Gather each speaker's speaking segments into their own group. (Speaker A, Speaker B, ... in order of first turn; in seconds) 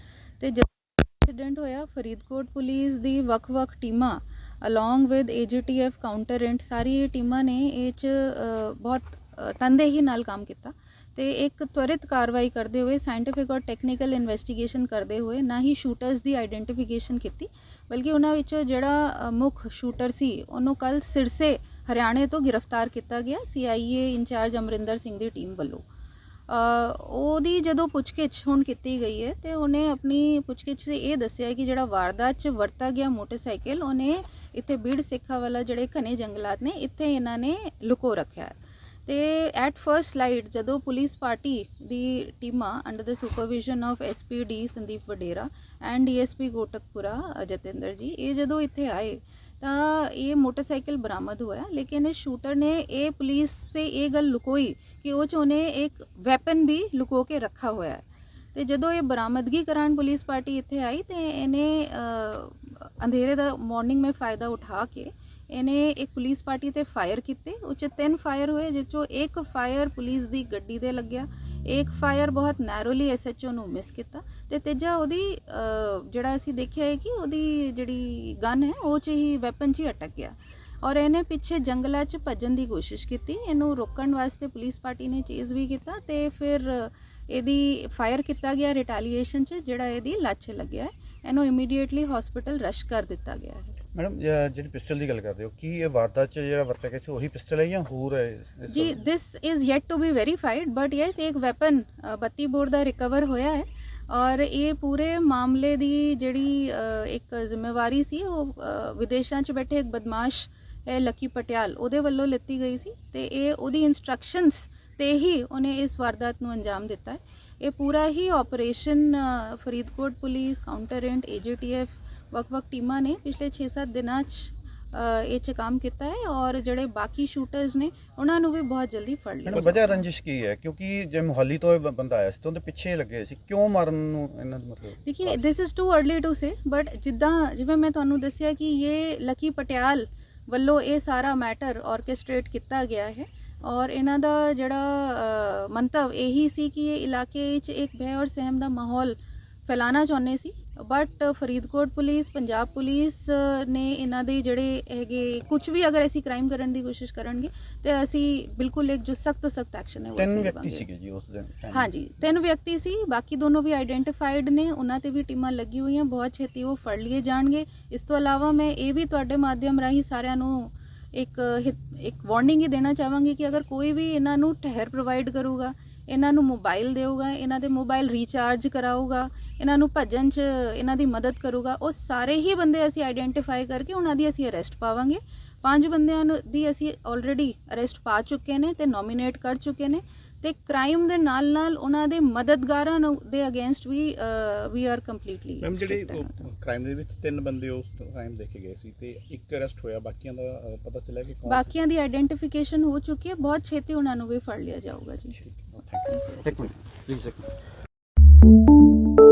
Speaker A: 0.4-0.7, 1.2-25.8, 26.5-93.8, 98.7-130.0, 135.1-160.8, 161.7-196.4, 201.5-205.4
Speaker B: 94.0-99.0, 129.5-135.4, 160.2-161.9, 206.3-207.5
Speaker C: 195.6-201.7, 205.4-206.7